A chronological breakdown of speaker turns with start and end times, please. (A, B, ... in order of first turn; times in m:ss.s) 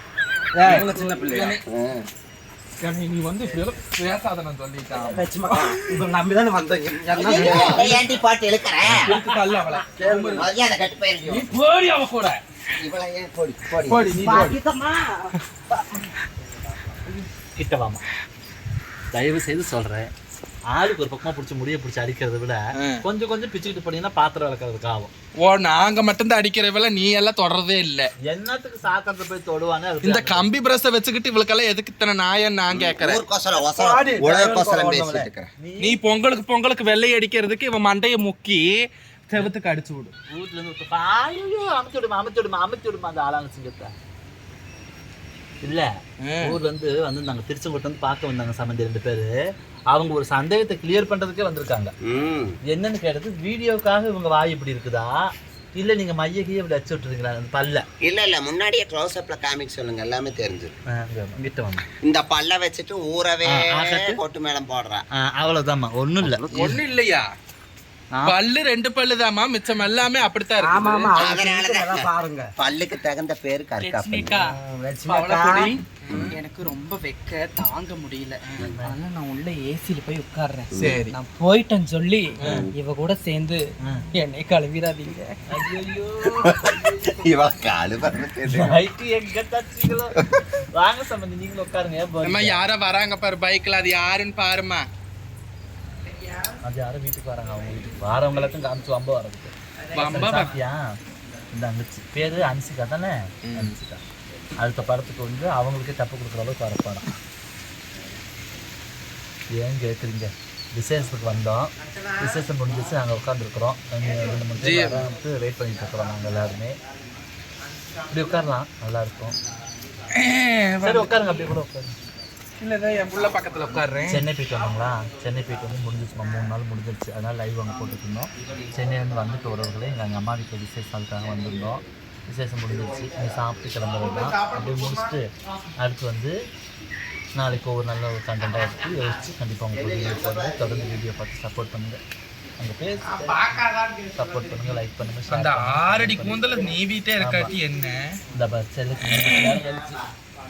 0:00.5-0:01.6 A
0:00.6-0:01.6 B
0:01.7-0:02.1 C
0:02.8-0:05.8 B
0:04.9-0:08.0 A
0:07.1-0:09.2 C
0:07.4-0:07.9 B
0:08.8-0:10.5 B
0:09.9-0:10.5 A
0:10.4-0:11.5 C
0:11.3-0:12.4 B
0:12.8-0:14.3 C
0:13.9-0:14.6 B
0:14.2-0:15.2 A
0:17.5-0:18.0 D
0:19.1-0:20.1 D
0:20.7-0:25.1 D
0:25.4-0:28.1 B
0:28.2-0:30.5 D
0:30.0-0:33.2 B
0:32.7-0:35.5 C
0:33.6-0:35.3 A
0:35.6-0:36.0 D
0:35.8-0:40.1 B
0:40.3-0:43.9 D
0:45.6-0:45.9 D
0:46.2-0:46.6 B
0:46.4-0:49.3 D
0:49.9-0:51.9 D
0:52.1-0:52.5 C
0:52.6-0:57.8 D
0:58.0-1:00.8 C
1:00.9-1:01.8 D
1:02.0-1:05.0 C
1:03.5-1:04.2 D
1:05.1-1:06.4 D
1:06.2-1:06.8 A
1:06.5-1:07.2 B
1:08.1-1:08.4 D
1:08.2-1:11.1 B
1:10.6-1:12.5 A
1:11.2-1:14.3 C
1:13.8-1:14.6 E
1:14.2-1:15.7 A
1:15.1-1:23.6 E
1:15.4-1:16.3 B
1:16.1-1:16.3 C
1:18.6-1:18.9 D
1:20.8-1:21.1 B
1:22.4-1:22.7 C
1:24.2-1:25.4 E
1:25.5-1:26.6 D
1:26.5-1:28.8 C
1:28.5-1:30.1 D
1:30.7-1:32.6 D
1:32.2-1:34.8 B
1:36.6-1:40.8 D
1:39.9-1:40.5 B
1:41.5-1:44.0 D
1:43.5-1:43.8 B
1:44.6-1:47.1 D
1:49.5-1:56.8 D
1:54.6-1:55.2 B
1:58.1-1:59.4 D
2:00.1-2:01.4 B
2:00.8-2:02.0 D
2:02.6-2:04.3 B
2:04.0-2:16.3 D
2:11.2-2:11.8 C
2:12.7-2:13.6 C
2:14.0-2:15.2 B
2:17.3-2:22.0 D
2:19.7-2:21.0 C
2:22.6-2:23.6 D
2:23.1-2:28.1 B
2:24.2-2:26.6 D
2:27.2-2:27.5 D
2:28.3-2:30.0 D
2:29.1-2:29.6 B
2:29.6-2:30.1 C